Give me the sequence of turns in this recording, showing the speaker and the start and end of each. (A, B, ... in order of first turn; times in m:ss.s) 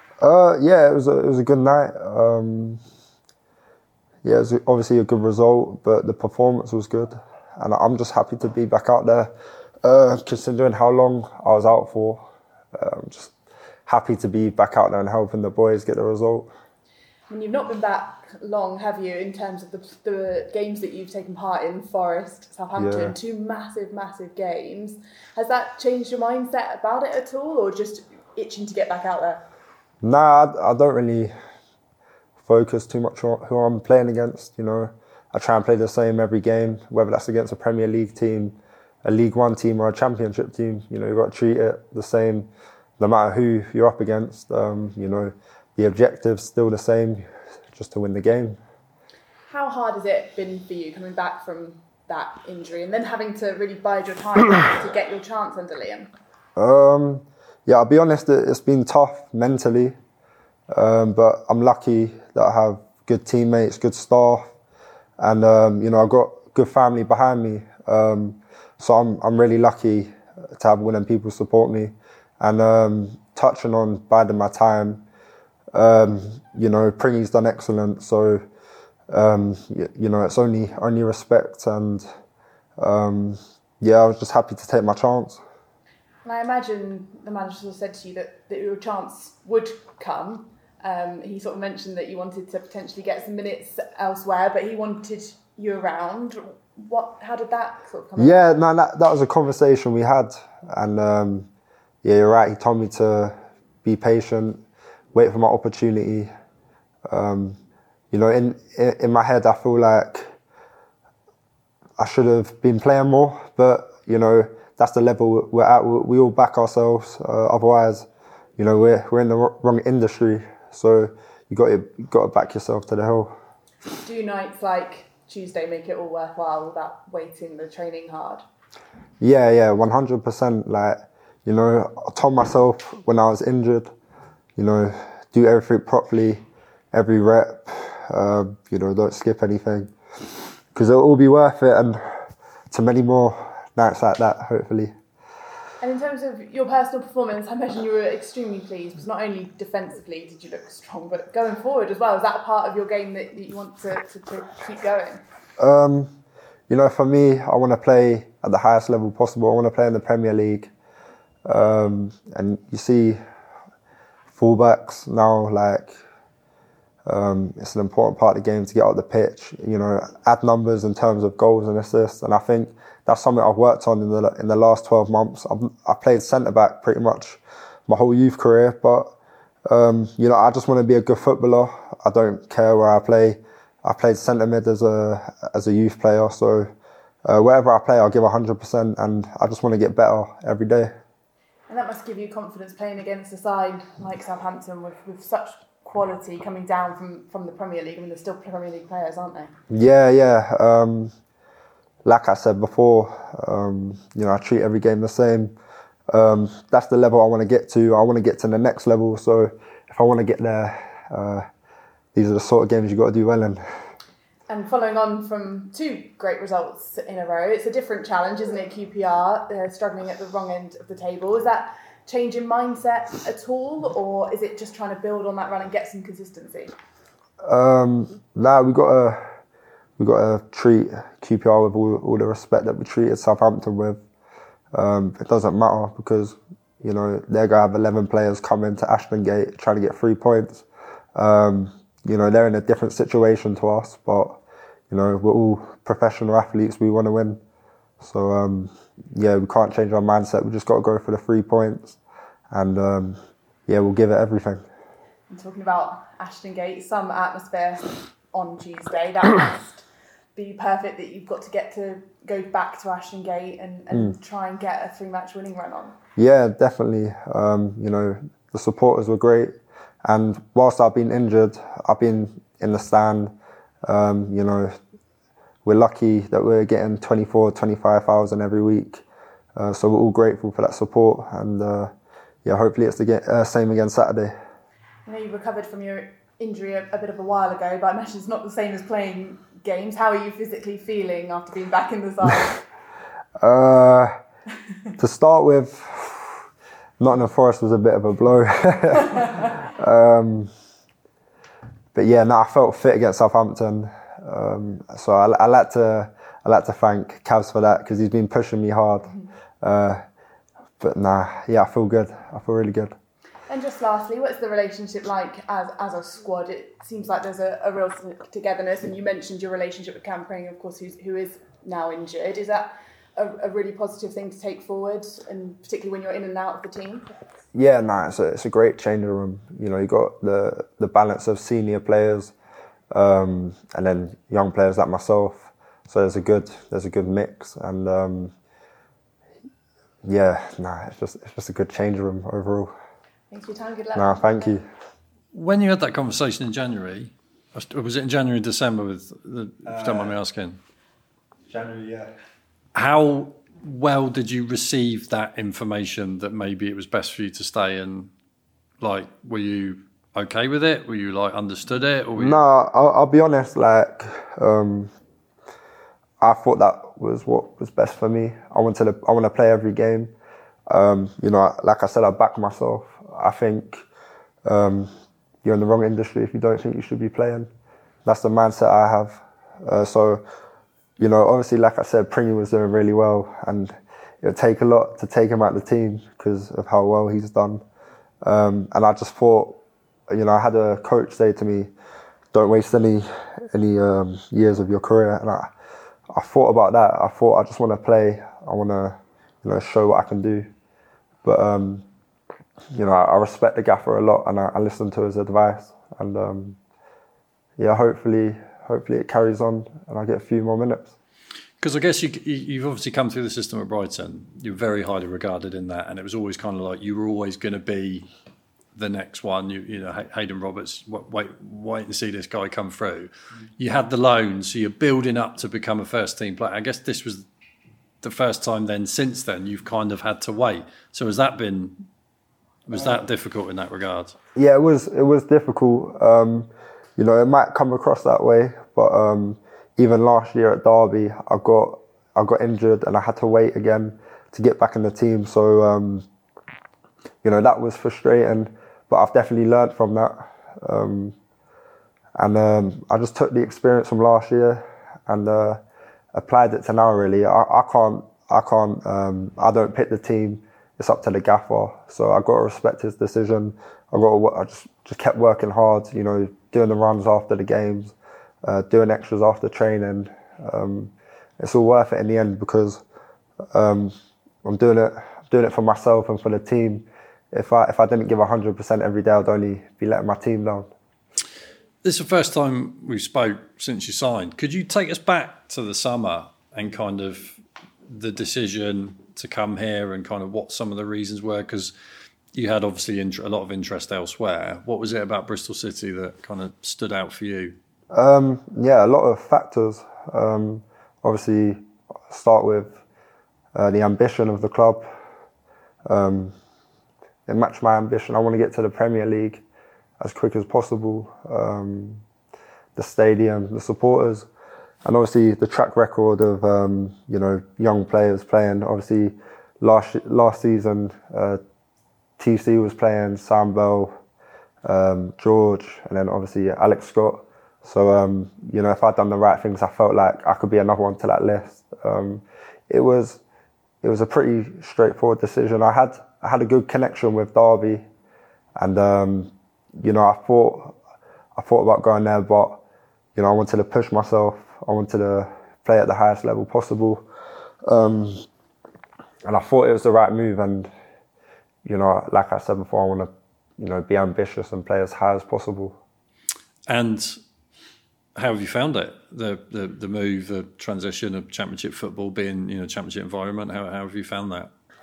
0:00.2-0:02.8 A
0:04.2-0:09.3 A
0:09.8-0:12.2 A
0:12.8-0:13.3 A
0:13.9-0:16.5 A
0:17.3-0:29.4 B
0:22.8-0:23.1 A
0:30.0-0:31.3 A
0:32.4-0:42.5 A
0:43.0-0:48.6 A
0:49.5-0:56.1 B
0:56.6-1:00.0 A
1:00.7-1:04.5 A
1:05.2-1:15.0 A
1:15.7-1:18.4 A
1:19.1-1:22.1 A
1:22.8-1:25.4 A
1:26.2-1:38.5 B
1:38.2-1:41.5 A
1:42.0-1:44.6 A
1:45.1-1:46.3 A
1:47.1-1:47.6 A
1:48.1-1:50.3 A
1:52.0-1:58.1 A
1:58.6-2:03.3 A
2:04.0-2:08.4 B
2:09.2-2:13.9 A
2:14.6-2:16.4 A
2:16.9-2:19.9 A
2:20.7-2:22.0 A
2:22.7-2:24.9 A
2:25.8-2:35.2 B
2:35.6-2:36.1 A
2:36.7-2:40.7 A
2:41.5-2:43.2 A
2:44.4-2:46.0 A
2:47.1-2:59.1 A
2:59.7-3:06.7 A
3:07.3-3:10.9 A
3:11.7-3:19.5 B
3:19.7-3:21.1 A
3:22.0-3:25.5 A
3:26.1-3:31.5 A
3:32.2-3:33.6 A
3:34.5-3:46.7 B
3:47.4-3:49.2 A
3:50.0-3:54.0 A
3:54.7-4:07.4 A
4:08.0-4:12.0 A
4:12.5-4:14.6 A
4:15.3-4:25.9 B
4:26.2-4:29.5 A
4:30.0-4:33.3 A
4:33.9-4:34.7 A
4:35.6-4:39.0 A
4:39.6-4:41.9 A
4:42.4-4:44.3 A
4:45.1-4:52.6 B
4:53.4-4:54.1 A
4:55.0-4:56.4 A
4:57.0-5:00.5 A
5:01.9-5:10.0 A
5:10.8-5:12.9 A
5:13.5-5:27.3 B
5:27.5-5:32.3 A
5:32.9-5:38.3 A
5:40.0-5:42.7 A
5:43.3-5:44.6 B
5:44.0-5:44.6 A
5:45.3-5:50.6 C
5:49.7-5:50.2 A
5:51.5-5:52.1 A
5:52.8-5:58.1 C
5:58.8-6:02.4 C
6:02.2-6:04.9 A
6:06.2-6:10.1 A
6:10.7-6:13.8 A
6:14.5-6:14.9 A
6:15.4-6:17.5 A
6:18.0-6:20.2 A
6:21.0-6:27.6 A
6:28.2-6:29.6 A
6:30.1-6:31.7 A
6:32.3-6:35.5 A
6:36.1-6:40.5 A
6:41.2-6:41.8 A
6:42.7-6:46.6 A
6:47.6-6:50.9 A
6:51.6-6:58.1 C
6:58.8-7:07.3 C
7:08.0-7:11.8 C
7:12.7-7:14.2 C
7:14.4-7:26.0 A
7:27.2-7:31.2 A
7:32.2-7:35.6 A
7:36.1-7:52.8 A
7:53.5-7:53.9 A
7:54.4-8:00.7 A
8:01.8-8:11.7 C
8:12.4-8:17.6 C
8:17.9-8:22.8 A
8:23.6-8:24.9 A
8:25.9-8:26.3 A
8:27.3-8:29.4 A
8:30.0-8:32.0 A
8:32.8-8:34.3 A
8:34.8-8:41.4 A
8:42.2-8:43.9 A
8:44.6-8:53.2 A
8:53.8-8:57.8 A
8:58.6-9:00.8 A
9:01.4-9:02.6 A
9:03.2-9:07.0 A
9:07.7-9:08.2 A
9:09.2-9:10.7 A
9:11.6-9:15.8 A
9:16.7-9:17.2 C
9:18.2-9:24.5 C